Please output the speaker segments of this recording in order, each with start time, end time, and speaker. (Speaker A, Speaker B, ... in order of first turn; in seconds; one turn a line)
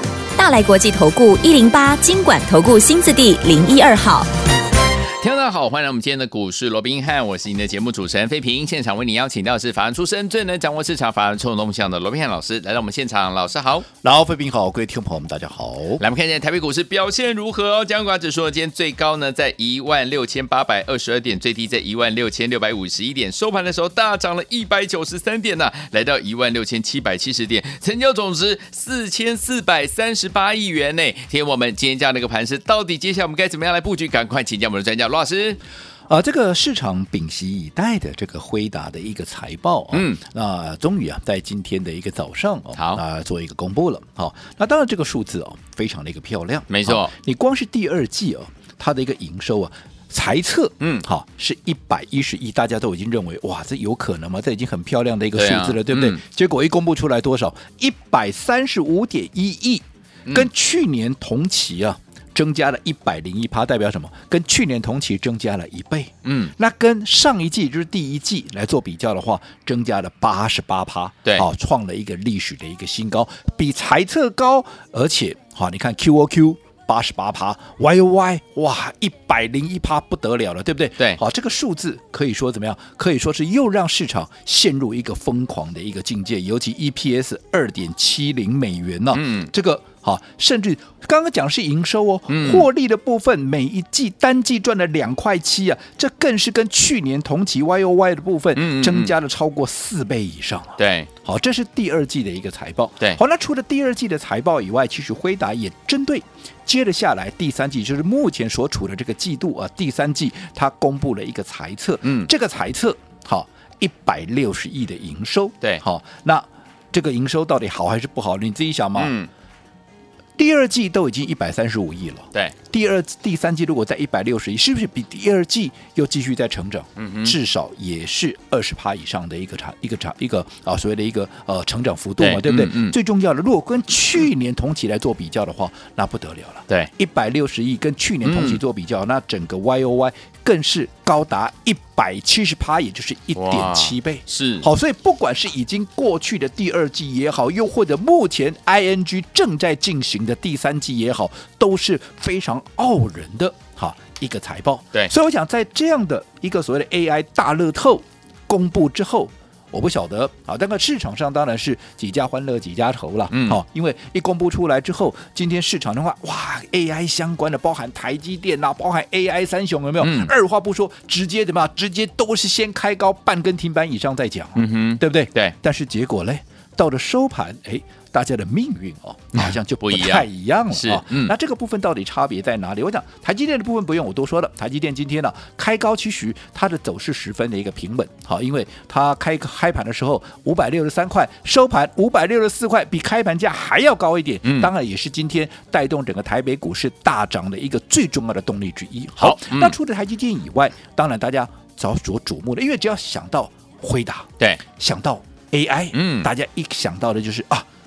Speaker A: 0.4-4.3
Speaker B: 5.2-13.8
Speaker C: 14.0-16.0
Speaker B: 16.0-35.6
Speaker C: 36.1-119.1
Speaker B: 39.9-40.2
Speaker B: 42.8-43.0
Speaker B: 46.7-47.1
Speaker B: 50.8-51.1
Speaker B: 55.3-56.2
Speaker B: 66.2-66.5
Speaker B: 89.1-89.5
Speaker B: 92.3-92.7
Speaker B: 98.5-99.1
Speaker B: 100.8-101.1
Speaker B: 112.0-112.3
Speaker B: 118.9-119.3
Speaker C: 120.3-207.7
Speaker B: 127.0-127.3
Speaker B: 132.2-132.9
Speaker B: 138.2-138.6
Speaker B: 143.3-144.7
Speaker B: 163.3-163.6
Speaker B: 170.0-170.3
Speaker B: 174.5-175.5
Speaker B: 179.3-181.3
Speaker B: 194.4-194.7
Speaker B: 199.2-199.7
Speaker B: 205.9-206.3